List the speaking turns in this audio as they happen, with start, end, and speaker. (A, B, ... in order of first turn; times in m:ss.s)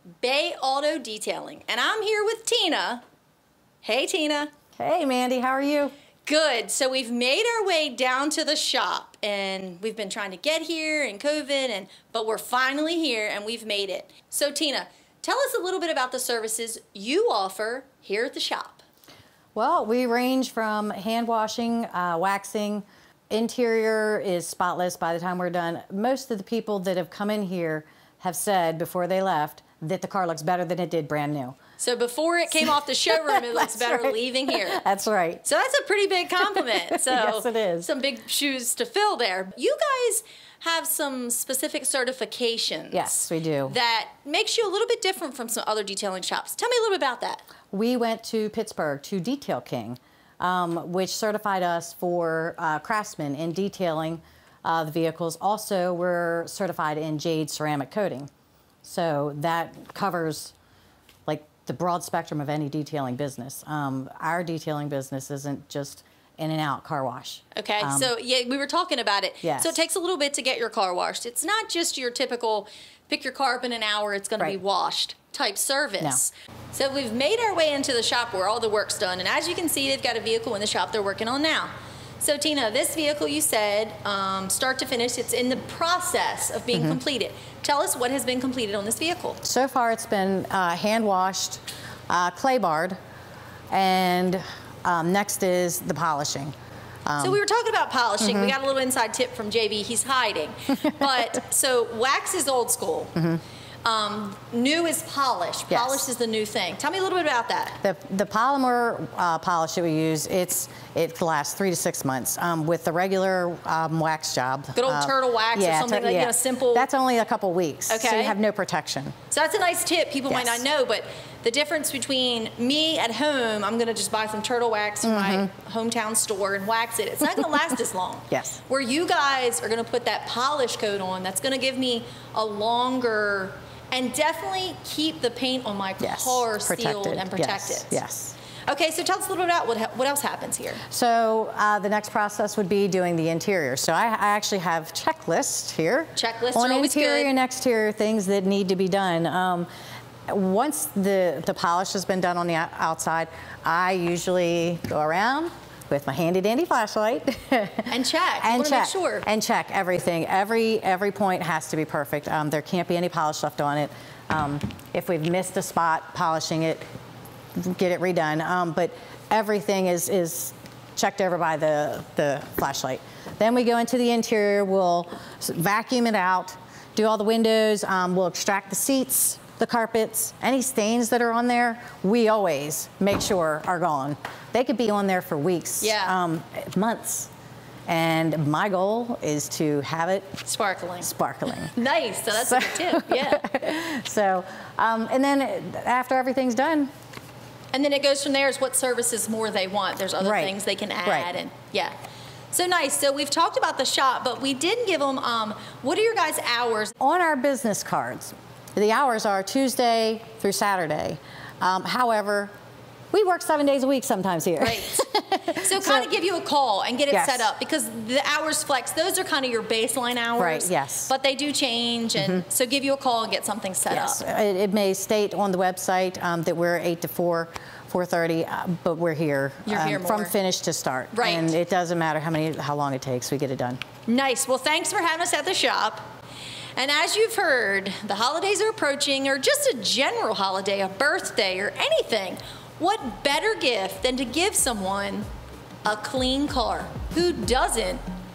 0:00.2-0:03.0 A
0:03.8-0:04.5 A
0:04.8-0:05.9 B
0:06.2-0:18.8 A
0:19.5-0:31.6 B
0:31.8-0:34.8 A
0:33.3-0:35.4 B
0:35.4-0:47.4 A
0:36.6-0:37.9 B
0:42.9-0:43.7 B
0:47.7-0:58.3 B
0:58.8-1:00.5 B
1:01.2-1:08.1 B
1:07.5-1:29.4 A
1:09.4-1:09.8 B
1:26.7-1:27.0 B
1:29.4-1:33.0 B
1:33.7-1:36.5 B
1:37.0-1:37.4 B
1:37.2-1:43.1 A
1:38.2-1:38.5 B
1:43.2-1:43.4 B
1:43.8-1:47.8 A
1:45.7-1:46.0 B
1:47.8-1:59.2 B
1:54.8-1:56.9 A
1:57.9-1:58.3 A
1:59.3-2:18.0 A
2:00.3-2:00.6 B
2:05.0-2:05.5 B
2:08.3-2:08.6 B
2:16.0-2:18.4 B
2:18.7-2:20.8 A
2:20.9-2:29.7 B
2:26.2-2:27.3 A
2:30.3-2:46.8 B
2:37.9-2:39.2 A
2:47.6-3:07.3 B
3:05.8-3:06.2 A
3:07.9-3:10.4 B
3:10.4-3:13.5 A
3:11.0-3:11.8 B
3:12.3-3:16.9 B
3:17.7-3:22.0 A
3:20.2-3:21.3 B
3:22.5-3:26.9 A
3:27.0-3:32.5 B
3:33.1-3:36.1 B
3:34.6-3:44.2 A
3:37.1-3:37.5 B
3:40.4-3:41.1 B
3:42.2-3:42.4 B
3:43.9-3:53.8 B
3:49.6-3:50.3 A
3:51.1-3:51.5 A
3:54.1-3:56.0 A
3:56.8-4:05.3 A
4:05.8-4:08.0 A